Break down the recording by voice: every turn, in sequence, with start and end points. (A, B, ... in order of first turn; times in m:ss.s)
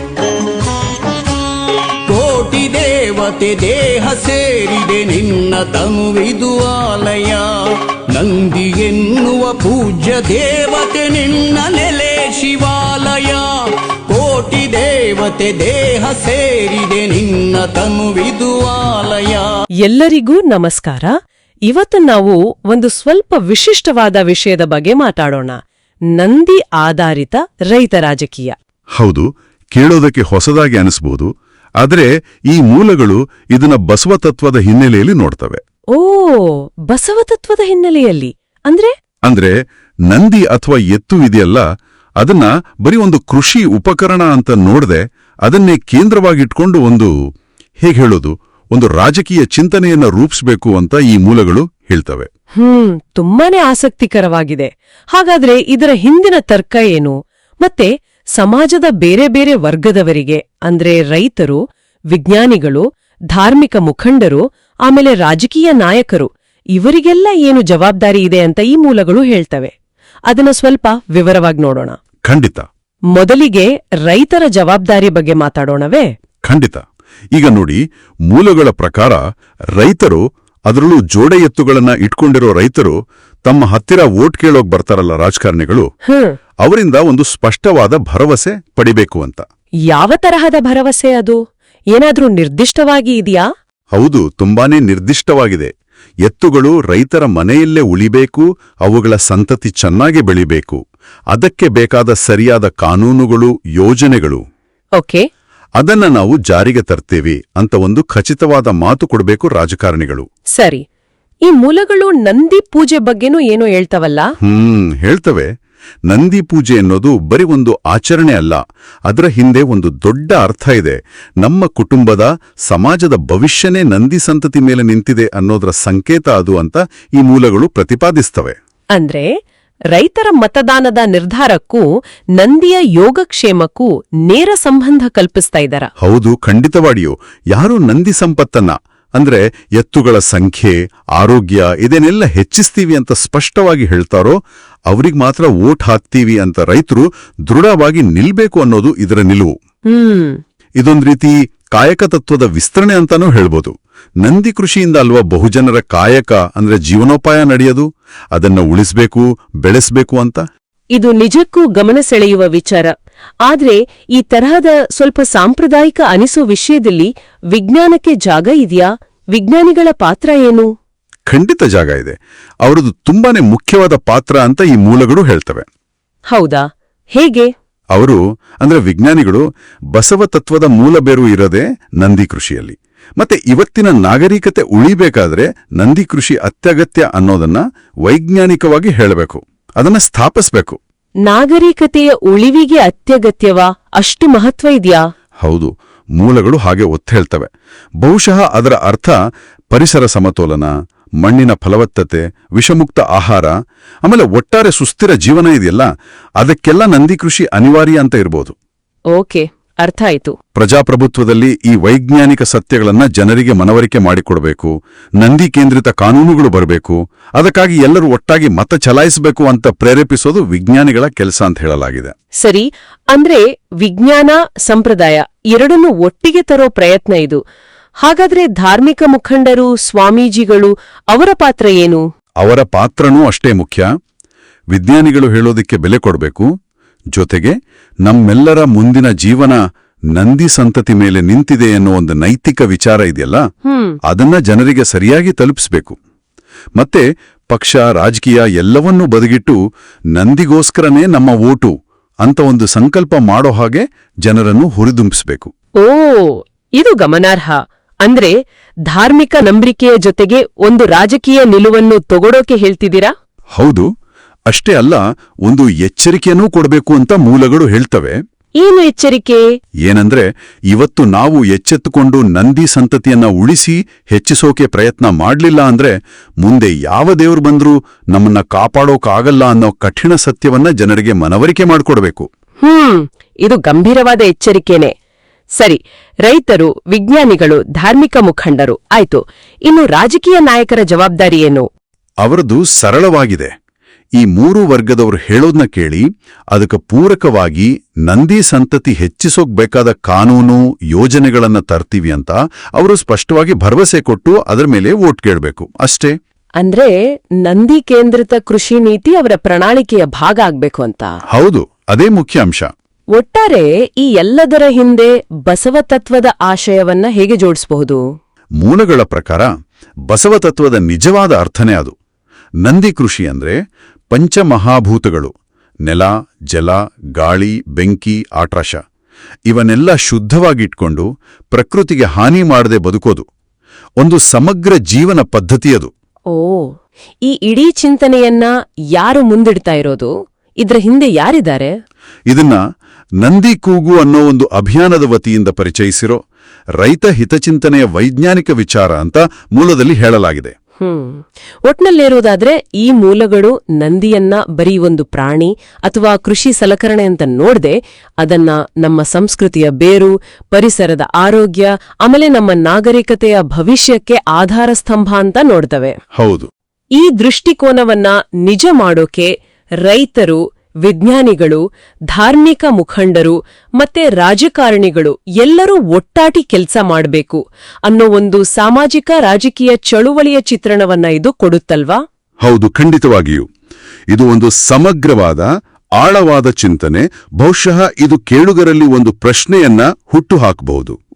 0:02.0-0:19.5 A
0:19.8-0:21.1 B
0:21.7-0:25.6 B
0:26.2-0:28.6 B
0:29.0-0:35.6 C
0:35.9-0:38.9 B
0:39.2-0:39.6 C
0:40.1-0:41.6 C
0:42.2-0:47.1 C
0:47.8-0:52.3 C
0:52.6-1:01.6 B
1:02.1-1:09.7 B
1:10.3-1:12.0 B
1:12.3-1:12.6 C
1:13.1-1:16.1 B
1:16.4-1:16.8 C
1:17.3-1:19.2 C
1:19.8-1:25.9 C
1:26.1-1:26.4 B
1:26.6-1:29.4 C
1:29.9-1:31.4 B
1:31.9-1:33.5 B
1:33.9-1:35.7 C
1:36.2-1:40.8 C
1:41.3-1:44.4 C
1:45.0-1:45.2 B
1:45.8-1:50.2 C
1:50.6-1:50.8 B
1:51.4-1:54.3 B
1:54.4-1:55.5 C
1:56.1-2:08.5 C
2:09.0-2:09.3 B
2:09.9-2:11.8 B
2:12.4-2:15.9 B
2:16.0-2:24.4 C
2:24.9-2:29.5 C
2:29.9-2:30.4 B
2:30.8-2:40.4 C
2:40.9-2:42.9 B
2:43.4-2:50.7 B
2:51.3-2:55.6 C
2:56.3-2:57.5 B
2:57.9-2:59.4 C
2:59.9-3:10.8 C
3:11.2-3:15.0 B
3:15.4-3:17.5 C
3:18.0-3:19.2 C
3:19.7-3:20.7 C
3:21.2-3:23.5 C
3:24.0-3:25.9 C
3:26.4-3:28.5 C
3:29.1-3:30.4 B
3:30.5-3:42.1 C
3:42.4-3:47.4 B
3:48.0-3:52.0 B
3:52.4-3:53.9 C
3:54.7-3:56.5 C
3:57.1-3:59.6 C
4:00.1-4:03.4 C
4:03.6-4:04.0 B
4:04.0-4:06.0 C
4:06.8-4:09.6 C
4:10.1-4:11.7 C
4:12.2-4:15.5 C
4:15.8-4:18.3 B
4:18.9-4:23.1 B
4:23.5-4:23.8 C
4:24.5-4:28.2 C
4:28.6-4:29.4 B
4:29.8-4:42.3 C
4:42.6-4:44.9 B
4:45.6-4:51.6 B
4:52.2-4:53.5 C
4:54.2-5:06.1 C
5:06.6-5:06.9 B
5:07.4-5:11.1 B
5:11.3-5:12.7 C
5:13.2-5:18.0 B
5:18.6-5:19.5 C
5:20.1-5:21.9 C
5:22.6-5:23.6 C
5:24.1-5:25.3 C
5:25.8-5:28.8 C
5:29.5-5:33.2 C
5:34.0-5:35.9 C
5:36.3-5:36.7 B
5:37.2-5:40.1 B
5:40.6-5:41.7 B
5:42.3-5:42.6 C
5:43.2-5:46.2 C
5:46.8-5:50.5 C
5:50.8-6:06.0 B
6:06.2-6:06.5 C
6:07.0-6:09.3 B
6:09.8-6:11.6 B
6:12.1-6:22.0 B
6:22.4-6:23.4 C
6:24.1-6:31.0 C